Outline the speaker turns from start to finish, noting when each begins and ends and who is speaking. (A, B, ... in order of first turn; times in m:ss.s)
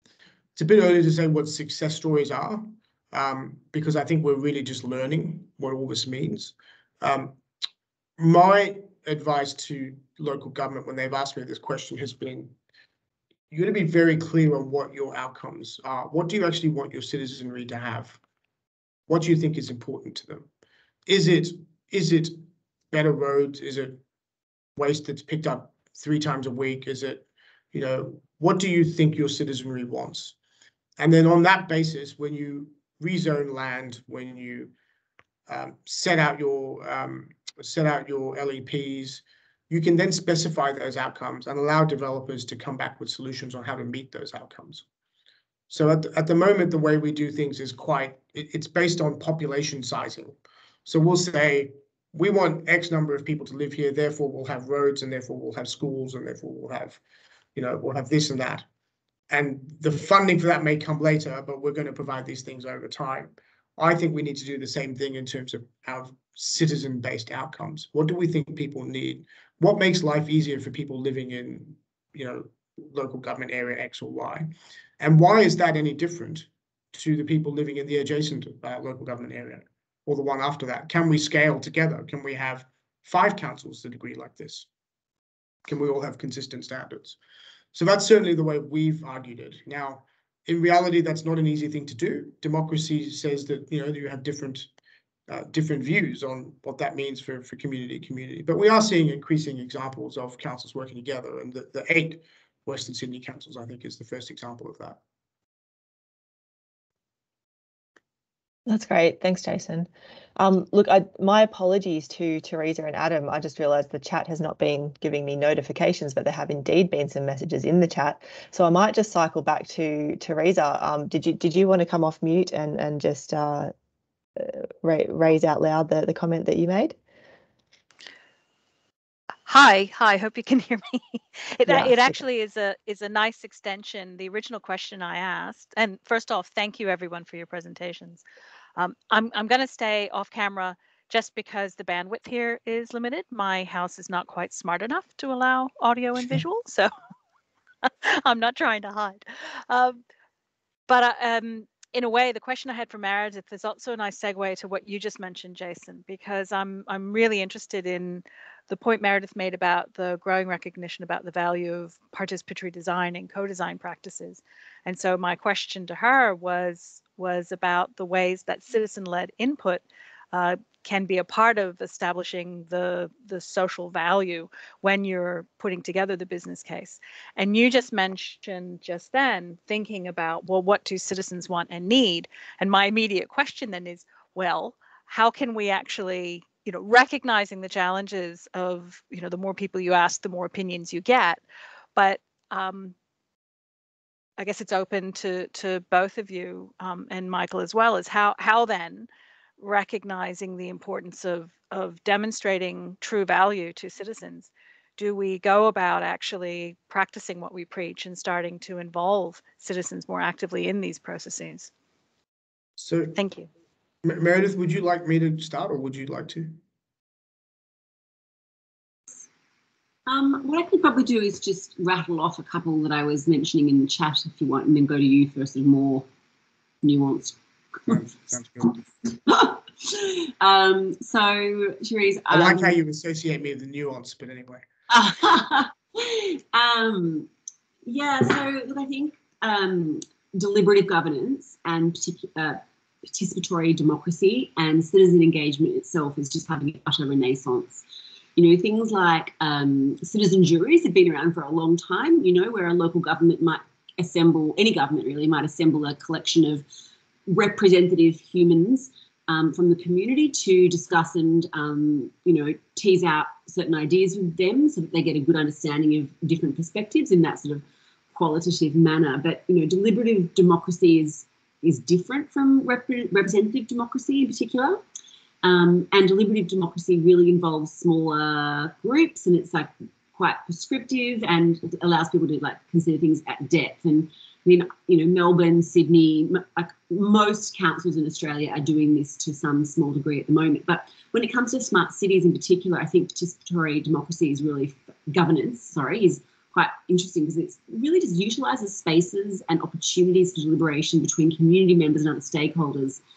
0:00.6-0:07.4 A
0:08.2-0:12.5 A
0:13.5-0:18.2 A
0:19.1-0:20.5 A
0:21.1-0:22.4 A
0:22.9-0:24.0 A
0:24.8-0:30.4 A
0:31.0-0:34.7 A
0:35.5-0:44.8 A
0:45.7-0:57.0 A
0:57.6-0:58.6 A
0:59.3-1:24.7 A
1:25.7-1:27.2 A
1:27.7-1:34.7 A
1:35.3-1:45.0 A
1:48.7-2:03.7 B
2:04.4-2:07.0 B
2:09.5-2:18.2 C
2:11.7-2:12.2 B
2:18.8-2:26.9 C
2:27.8-2:30.0 C
2:30.9-3:11.4 C
3:12.0-3:13.0 C
3:14.4-3:31.7 C
3:32.8-3:33.2 A
3:33.2-3:33.5 C
3:34.0-3:36.6 A
3:40.1-3:46.1 D
3:46.8-3:48.0 D
3:47.9-3:48.8 A
3:49.2-3:52.8 D
3:52.3-3:54.6 A
3:54.9-3:57.3 D
3:57.8-4:07.8 D
4:08.4-4:16.6 D
4:17.3-4:34.8 D
4:35.4-5:03.0 D